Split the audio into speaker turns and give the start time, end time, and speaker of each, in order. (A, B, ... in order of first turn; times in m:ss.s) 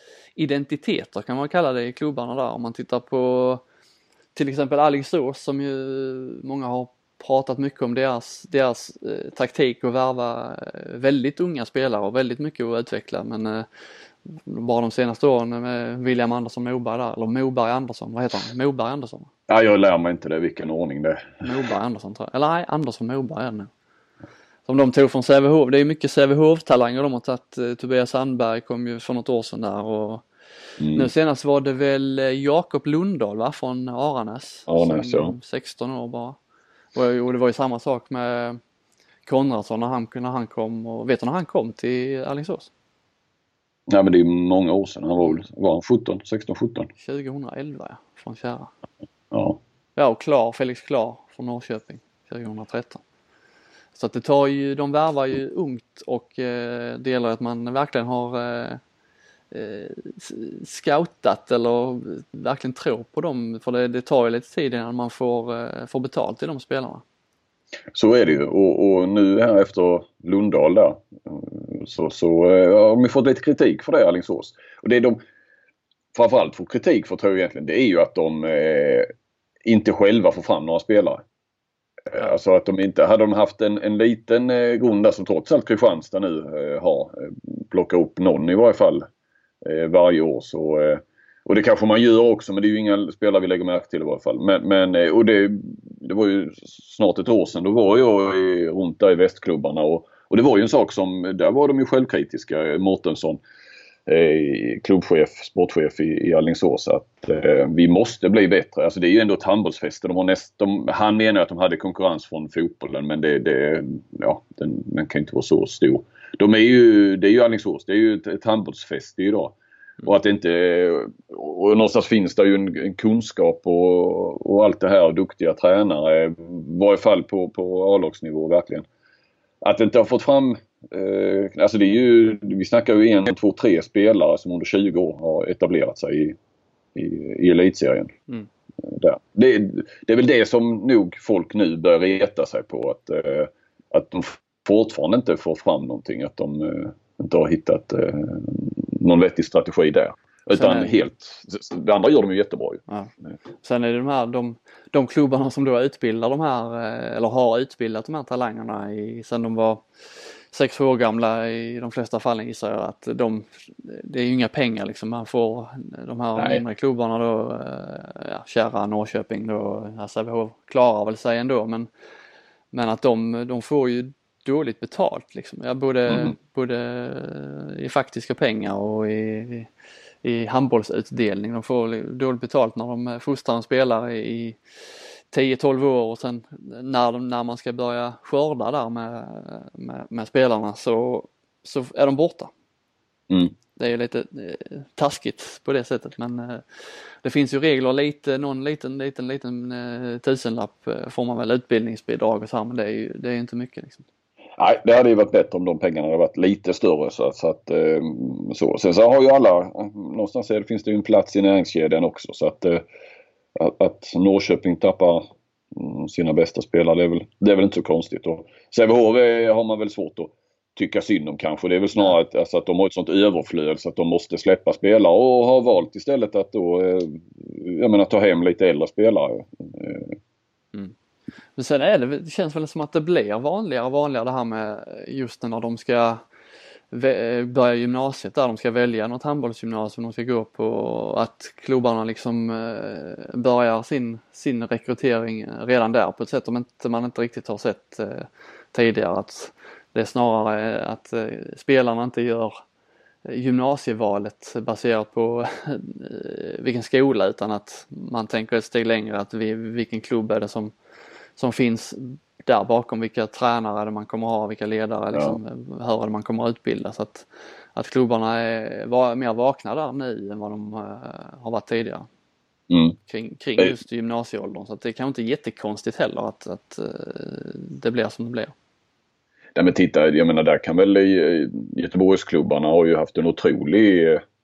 0:00.4-0:03.6 A
0:04.4-0:13.7 A
0:14.3-0:19.3 A
0:19.5-0:21.6 B
0:21.4-0:23.7 A
0:24.7-0:30.2 A
0:30.8-0:31.1 B
0:30.9-0:36.4 A
0:34.7-0:35.4 B
0:36.9-0:38.6 A
0:39.3-0:42.7 A
0:43.9-0:46.9 B
0:47.0-0:48.7 A
0:49.3-0:49.6 B
0:50.0-0:53.0 A
0:54.0-0:58.8 A
0:59.5-1:07.0 A
1:07.9-1:15.2 B
1:16.1-1:19.1 B
1:19.6-1:21.2 B
1:22.1-1:29.1 B
1:29.6-1:43.4 B
1:44.1-2:08.9 B
2:09.6-2:16.4 B
2:17.0-2:18.1 B
2:18.8-2:32.8 B
2:30.5-2:31.0 A
2:32.9-2:51.9 A
2:46.4-2:46.6 B
2:52.7-2:59.7 A
2:56.1-2:56.3 B
3:00.2-3:04.6 A
3:05.3-3:12.5 A
3:13.8-3:24.0 A
3:24.6-3:32.8 B
3:33.6-3:35.2 B
3:35.7-3:50.2 B
3:51.6-3:56.2 A
3:56.9-4:12.6 A
4:13.3-4:20.7 A
4:21.4-4:32.1 A
4:25.1-4:25.4 B
4:32.7-4:33.0 B
4:33.1-4:38.5 A
4:39.6-4:44.2 B